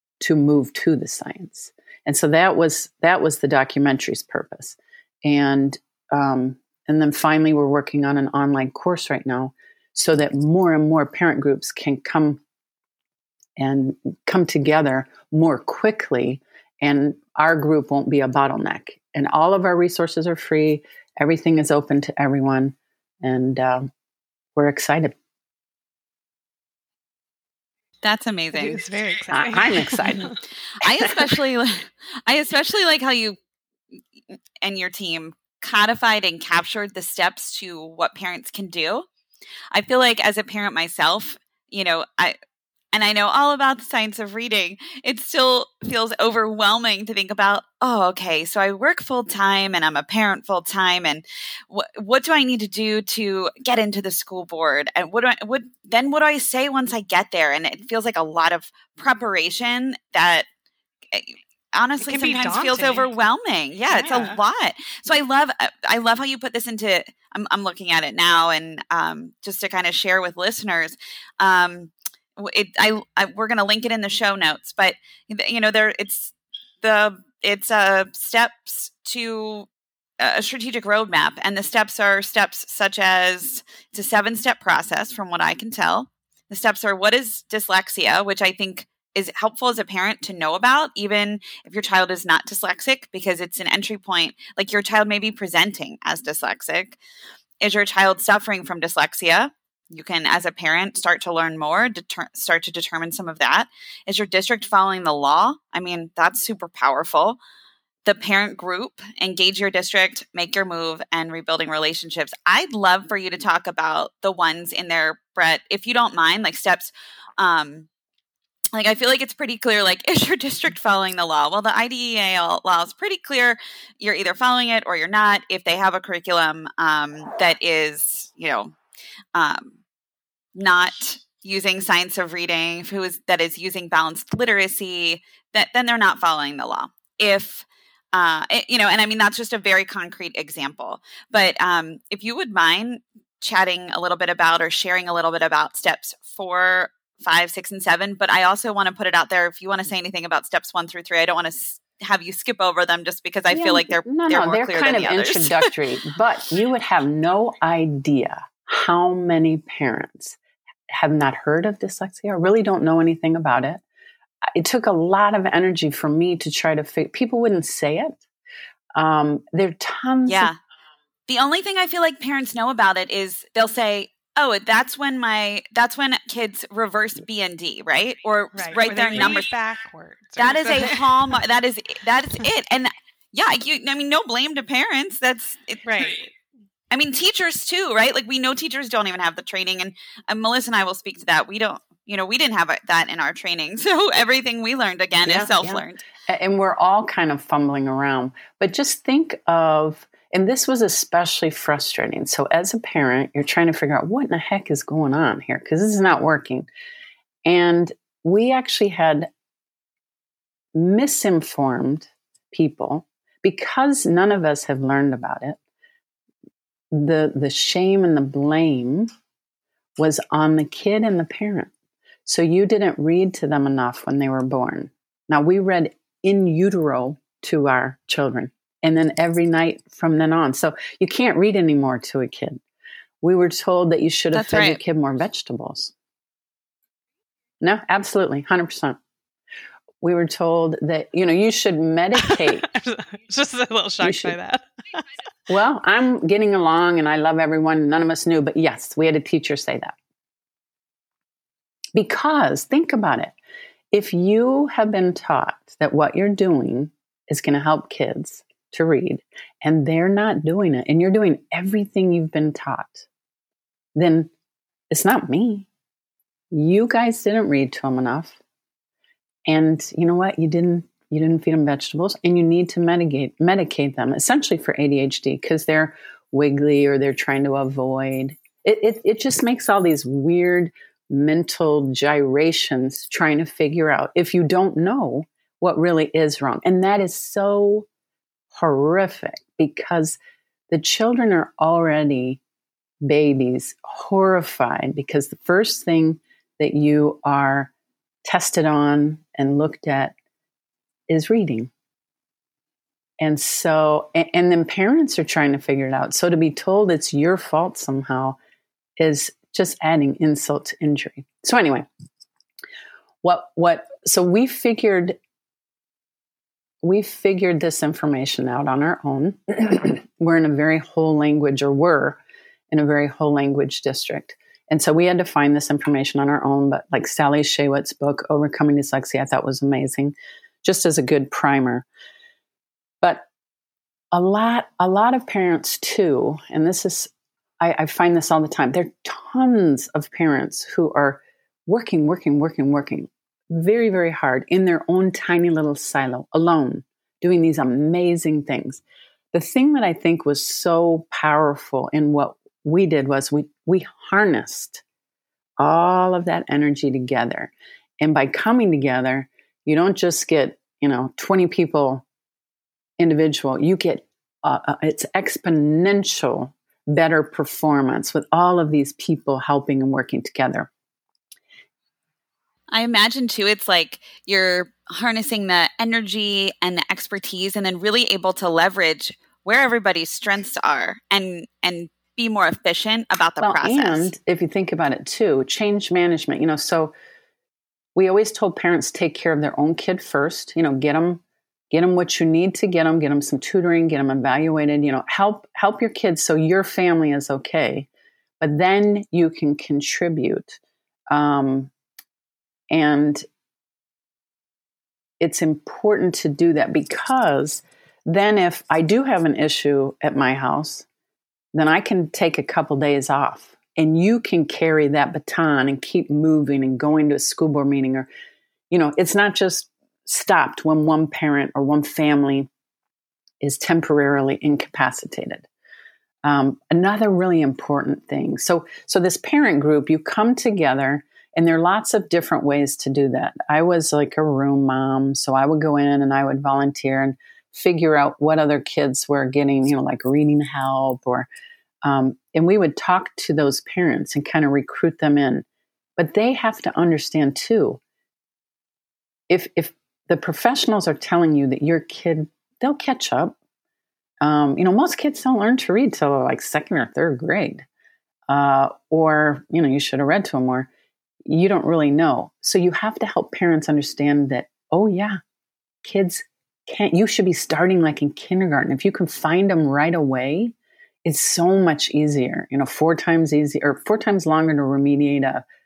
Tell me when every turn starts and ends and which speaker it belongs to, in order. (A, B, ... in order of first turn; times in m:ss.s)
0:00.2-0:12.4 A
0:13.6-0:23.9 A
0:24.6-0:25.2 A
0:28.0-0:28.8 B
0:28.5-0:30.4 C
0:29.3-0:30.4 A
0:30.8-0:33.4 B
0:34.6-0:39.1 B
0:39.7-0:42.4 B
0:42.9-1:00.5 B
1:01.1-1:19.7 B
1:02.0-1:03.1 C
1:03.9-1:04.4 C
1:20.2-1:37.0 B
1:37.6-1:47.4 B
1:48.0-1:57.9 B
1:58.8-2:08.8 B
2:09.4-2:09.8 B
2:10.6-2:35.7 B
2:33.5-2:40.4 A
2:40.9-2:43.8 A
2:44.5-2:48.2 A
2:49.0-2:50.5 A
2:50.3-2:50.6 B
2:51.3-2:59.5 B
2:58.6-3:01.4 C
3:00.4-3:06.1 B
3:05.8-3:06.3 C
3:06.9-3:16.0 B
3:15.2-3:26.7 A
3:27.5-3:29.3 A
3:30.8-3:35.6 A
3:36.9-3:39.1 A
3:40.0-3:41.7 A
3:42.3-3:52.6 A
3:53.2-3:55.9 A
3:54.3-3:54.8 B
3:57.6-3:59.0 A
4:00.0-4:02.7 A
4:02.2-4:05.0 C
4:04.0-4:04.4 A
4:05.5-4:10.0 A
4:12.0-4:13.3 A
4:13.9-4:23.1 A
4:24.0-4:24.3 A
4:24.9-4:25.7 A
4:26.5-4:28.4 A
4:29.5-4:47.9 A
4:48.5-4:50.2 A
4:50.7-4:52.4 A
4:53.0-4:57.7 A
4:58.2-5:00.1 A
5:01.1-5:01.7 A
5:03.2-5:08.4 A
5:09.0-5:11.9 A
5:13.2-5:15.2 A
5:16.8-5:22.2 A
5:22.7-5:31.8 A
5:33.0-5:33.3 A
5:34.1-5:48.8 A
5:49.3-5:54.8 A
5:55.6-6:02.0 A
6:03.0-6:10.7 A
6:12.7-6:24.1 B
6:23.4-6:26.9 A
6:28.0-6:37.9 A
6:38.4-6:40.6 A
6:41.1-6:41.7 A
6:42.7-6:43.2 A
6:45.2-6:50.9 A
6:51.5-6:58.1 A
6:58.7-7:02.5 A
7:03.4-7:05.5 A
7:06.2-7:21.3 A
7:21.8-7:25.4 A
7:26.0-7:27.8 A
7:29.3-7:33.4 A
7:34.2-7:37.7 A
7:38.3-7:40.7 A
7:41.3-7:45.2 A
7:45.8-7:55.4 A